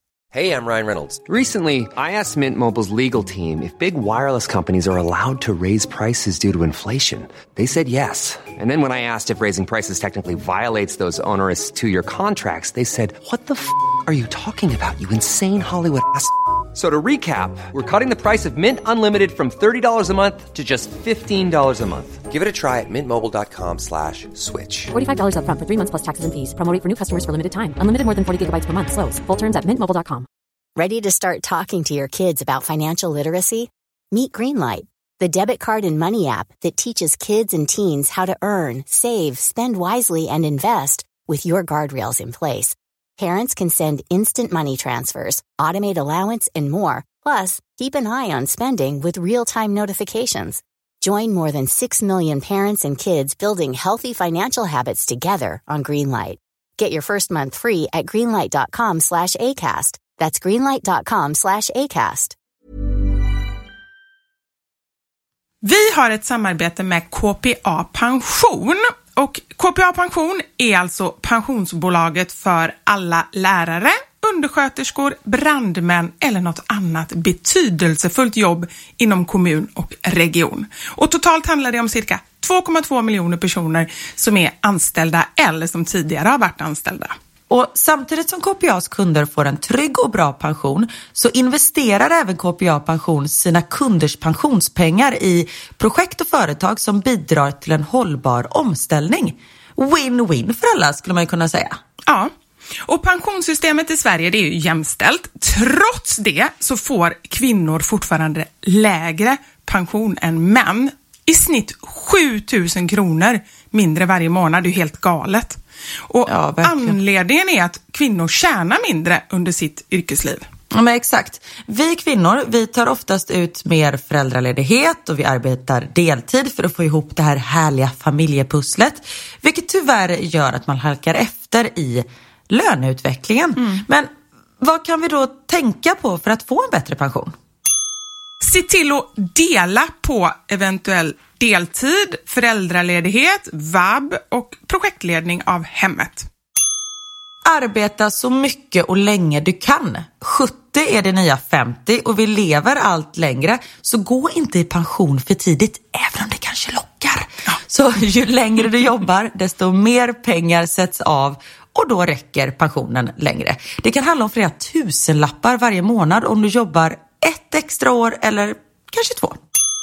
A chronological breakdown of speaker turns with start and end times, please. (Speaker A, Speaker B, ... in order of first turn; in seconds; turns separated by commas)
Speaker A: 0.3-24.9, Speaker B: 24.9-30.3, Speaker C: 30.8-62.4, Speaker D: 65.6-87.2, Speaker E: 87.5-101.8, Speaker D: 102.9-120.5, Speaker E: 116.3-117.0, Speaker E: 120.7-134.1, Speaker D: 133.6-133.8, Speaker E: 134.6-137.3, Speaker D: 138.4-146.3, Speaker E: 147.4-169.4